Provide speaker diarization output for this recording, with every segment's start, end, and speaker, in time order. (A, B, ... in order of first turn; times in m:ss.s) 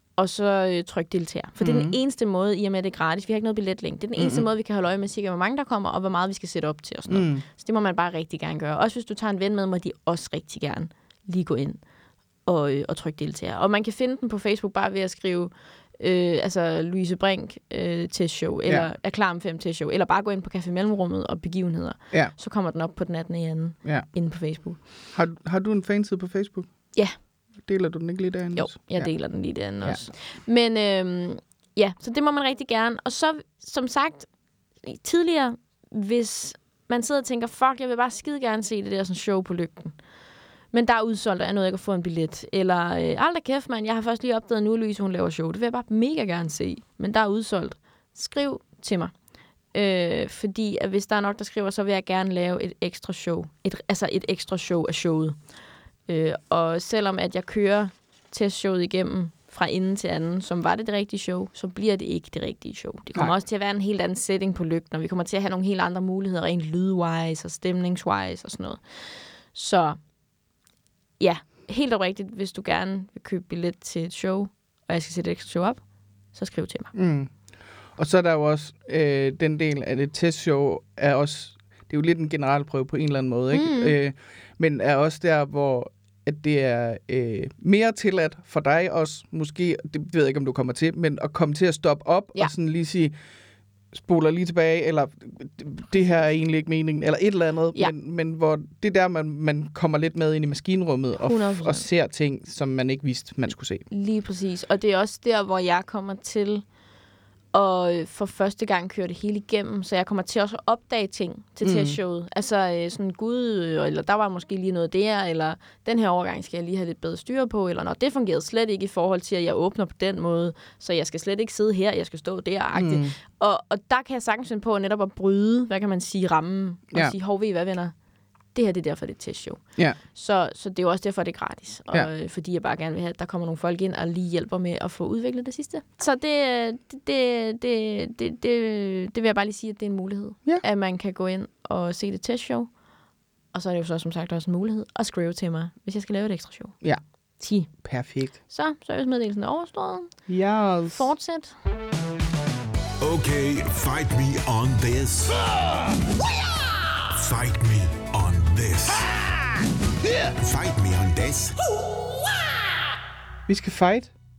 0:00.2-0:11.8 A
0:01.6-0:02.0 B
0:04.2-0:04.4 B
0:07.1-0:07.4 B
0:12.4-0:24.8 A
0:25.1-0:26.7 B
0:27.6-0:29.1 B
0:28.5-0:34.3 A
0:34.8-0:40.0 A
0:40.7-0:49.1 A
0:49.7-0:55.4 A
0:56.1-1:10.0 A
1:11.2-1:15.8 A
1:16.3-1:16.9 A
1:16.9-1:17.3 B
1:18.0-1:33.1 B
1:23.5-1:23.9 A
1:33.9-1:43.8 B
1:41.2-1:41.8 A
1:43.9-1:46.6 A
1:47.5-2:07.9 A
1:51.6-1:52.0 B
2:02.7-2:03.1 B
2:08.5-2:22.7 A
2:23.5-2:26.8 A
2:27.4-2:27.7 A
2:27.8-2:28.4 B
2:28.5-2:30.2 A
2:30.3-2:31.1 B
2:30.9-2:31.6 A
2:33.0-2:35.6 C
2:37.1-2:39.2 C
2:40.0-2:41.6 C
2:43.5-2:44.1 B